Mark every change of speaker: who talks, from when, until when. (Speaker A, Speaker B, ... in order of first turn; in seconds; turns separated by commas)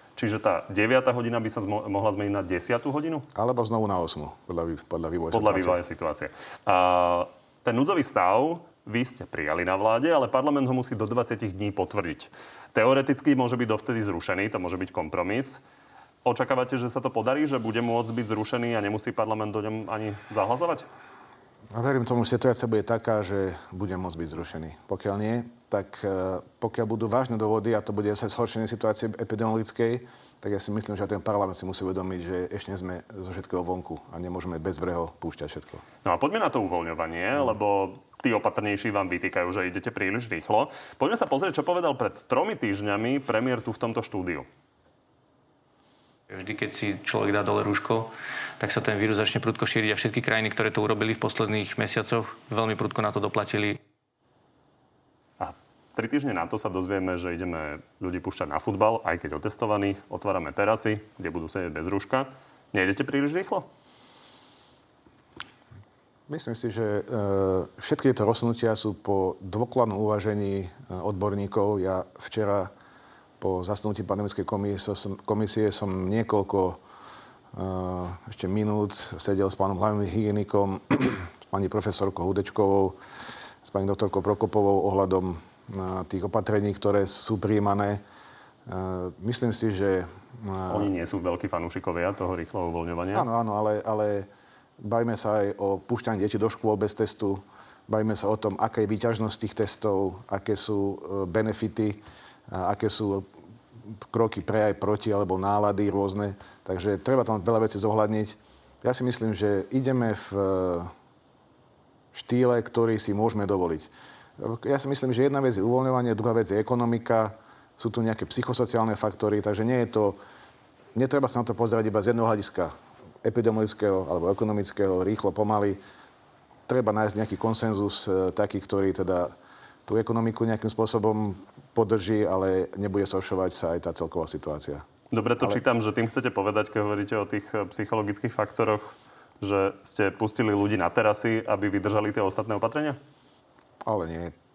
Speaker A: 0.2-3.2, Speaker B: 3.4-5.8, Speaker A: 5.3-15.6, Speaker A: 16.2-20.9, Speaker B: 21.7-35.8, Speaker A: 36.0-44.5, Speaker C: 46.3-53.8, Speaker A: 55.4-63.7, Speaker B: 66.3-72.7, Speaker B: 73.4-76.8, Speaker B: 77.5-83.0, Speaker B: 83.6-88.0, Speaker B: 88.7-90.9, Speaker A: 90.7-93.2, Speaker B: 93.1-94.3, Speaker B: 94.8-103.3, Speaker B: 103.9-110.9, Speaker B: 112.1-120.2, Speaker B: 121.0-125.8, Speaker B: 126.7-129.3, Speaker B: 129.9-134.8, Speaker A: 135.1-143.0, Speaker B: 143.8-144.3